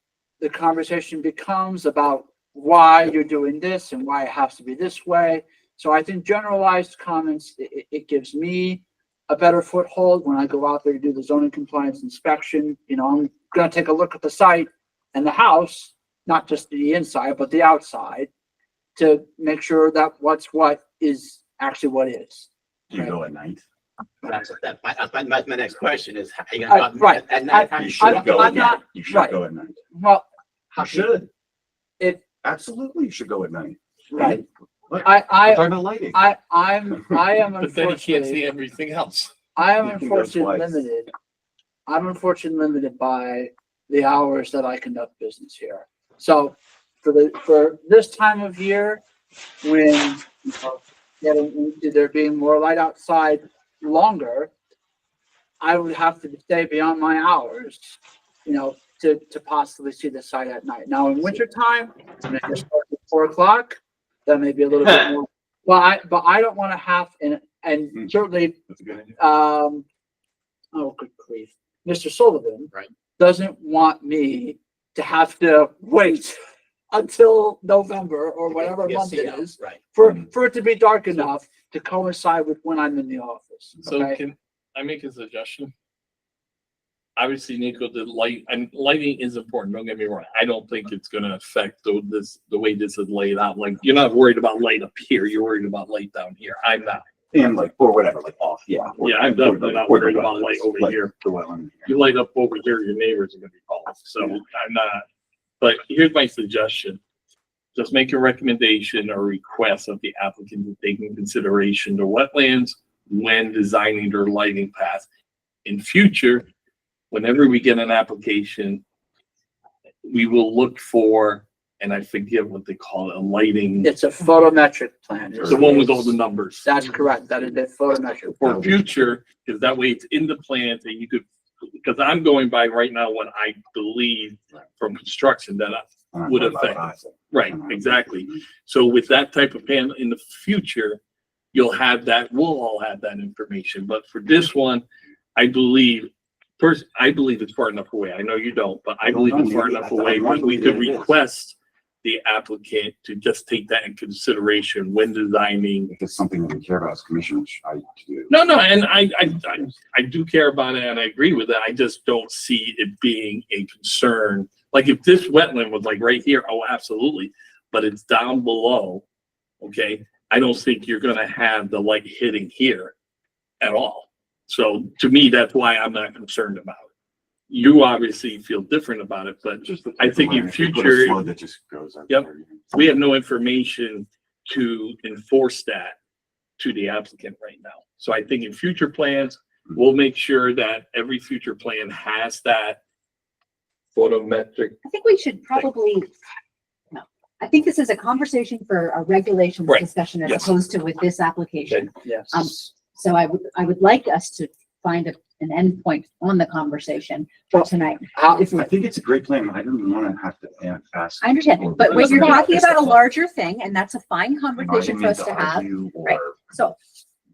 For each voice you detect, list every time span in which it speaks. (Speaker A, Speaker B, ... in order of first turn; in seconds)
Speaker A: 0.4-18.3, 18.9-23.1, 26.7-29.4, 29.9-30.2, 34.1-34.4, 35.0-38.4, 39.5-41.1, 41.9-49.0, 49.6-54.5, 55.6-68.6, 69.1-69.8, 70.7-76.4, 76.9-84.2, 123.8-128.7, 201.9-202.5, 208.2-208.4
Speaker B: 22.9-23.6, 27.8-29.8, 30.8-31.0, 32.4-36.2, 39.8-40.8, 68.7-69.0, 97.3-101.9, 136.1-138.2, 149.0-151.2, 155.9-158.3, 179.9-182.8, 200.2-200.5, 208.5-213.0, 214.6-216.5
Speaker C: 24.2-28.6, 30.7-31.3, 78.5-79.8
Speaker D: 37.6-39.3, 83.8-85.7, 87.2-97.0, 99.0-101.1, 101.8-105.0, 105.6-107.0, 107.7-115.0, 115.6-116.5, 117.1-118.8, 120.0-123.9, 125.4-126.7, 128.4-131.2, 131.8-141.0, 141.5-144.8, 145.3-155.9, 158.3-169.0, 169.6-172.9, 173.6-176.9, 177.5-181.2, 182.1-185.9, 186.6-192.8, 193.9-194.8, 211.9-212.4
Speaker E: 194.8-196.1, 196.9-208.7, 211.2-216.8